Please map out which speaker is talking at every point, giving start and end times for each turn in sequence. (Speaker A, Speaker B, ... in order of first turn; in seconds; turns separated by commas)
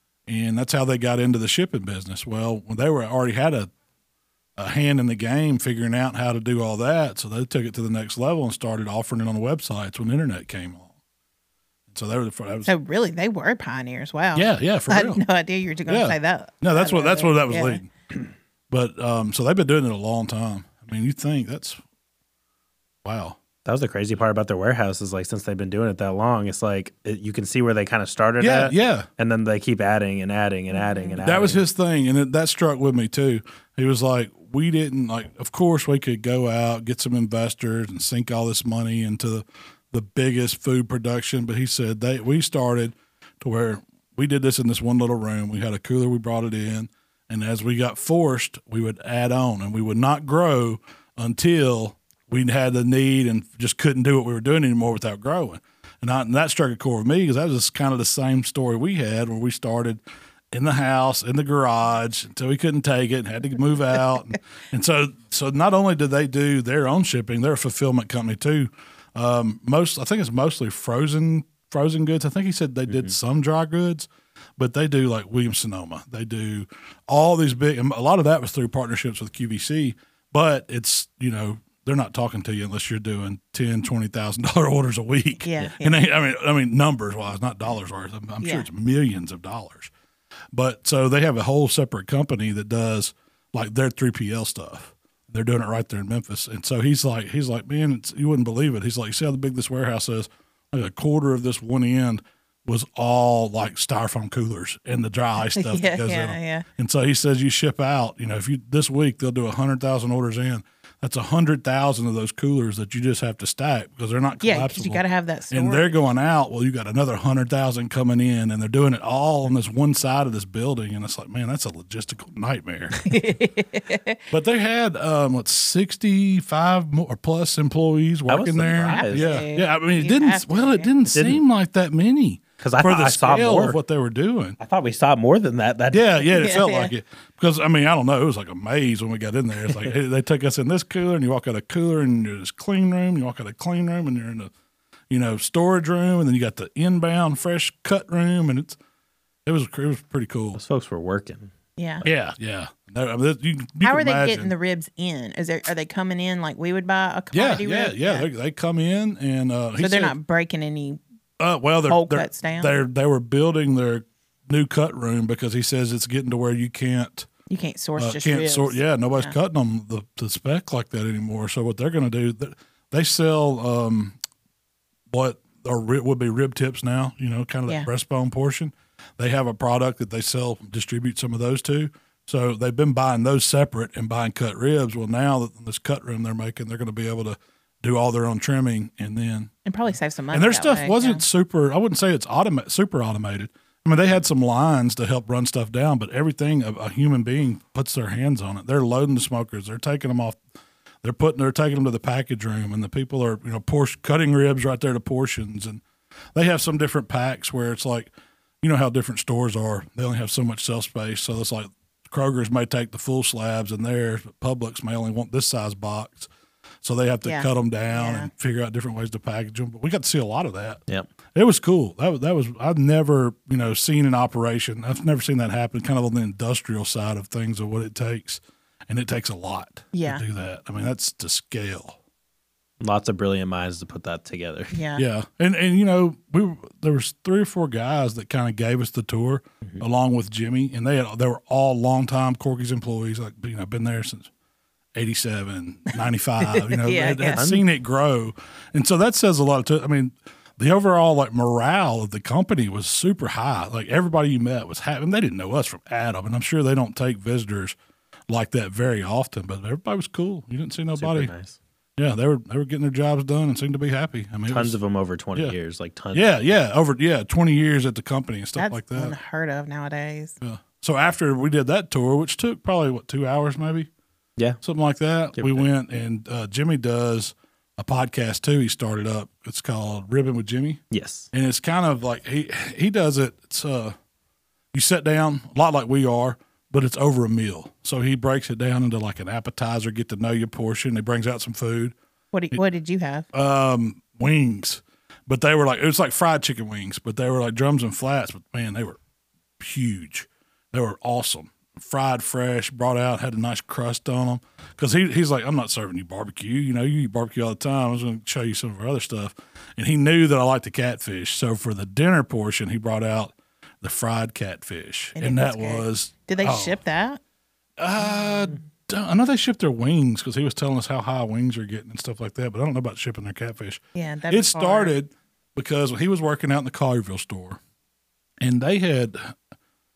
Speaker A: 0.3-3.7, Speaker A: 4.6-10.9, Speaker A: 11.9-12.7, Speaker B: 12.7-17.8, Speaker A: 14.3-15.2, Speaker A: 15.9-17.9, Speaker A: 18.7-21.8, Speaker A: 23.0-23.4, Speaker C: 23.6-31.6, Speaker A: 28.4-29.1, Speaker B: 30.7-31.2, Speaker A: 31.2-89.9, Speaker C: 72.9-73.1, Speaker B: 85.4-86.0, Speaker B: 88.4-88.7, Speaker A: 90.5-123.0, Speaker B: 105.5-106.7, Speaker B: 114.4-116.0, Speaker B: 123.0-124.2, Speaker A: 124.3-134.6, Speaker C: 128.3-129.3, Speaker B: 128.9-130.9, Speaker C: 131.1-131.4, Speaker C: 132.6-133.8, Speaker C: 134.6-136.1, Speaker A: 135.9-144.5, Speaker B: 136.3-136.9, Speaker A: 145.1-148.8, Speaker A: 149.5-150.6, Speaker C: 150.6-152.1, Speaker B: 151.8-152.0, Speaker A: 152.0-154.5, Speaker B: 153.8-158.3, Speaker A: 157.3-160.2, Speaker B: 159.8-161.0, Speaker A: 161.4-167.3, Speaker B: 161.9-162.7, Speaker B: 167.5-169.3, Speaker A: 168.0-174.2, Speaker A: 175.1-189.5, Speaker B: 189.7-191.2, Speaker A: 190.3-200.4, Speaker A: 201.0-205.8, Speaker A: 206.3-208.1, Speaker A: 208.6-216.3, Speaker A: 216.8-220.8, Speaker B: 217.2-218.3, Speaker A: 221.3-232.0, Speaker B: 229.9-230.2, Speaker C: 232.8-234.8, Speaker B: 234.7-235.1, Speaker A: 235.0-244.3, Speaker A: 244.9-257.8, Speaker B: 246.5-247.4, Speaker C: 247.3-247.7, Speaker A: 258.3-261.3, Speaker C: 261.0-261.6, Speaker A: 262.0-264.8, Speaker C: 264.5-266.3, Speaker A: 266.1-269.1, Speaker B: 268.6-270.4, Speaker A: 270.4-273.9, Speaker A: 274.6-283.9, Speaker C: 275.4-275.7, Speaker C: 280.9-281.3, Speaker A: 284.7-291.9, Speaker B: 292.3-293.3, Speaker A: 293.3-299.0, Speaker A: 299.6-316.8, Speaker B: 315.2-317.2, Speaker A: 317.8-327.6, Speaker B: 323.9-324.9, Speaker A: 328.4-329.4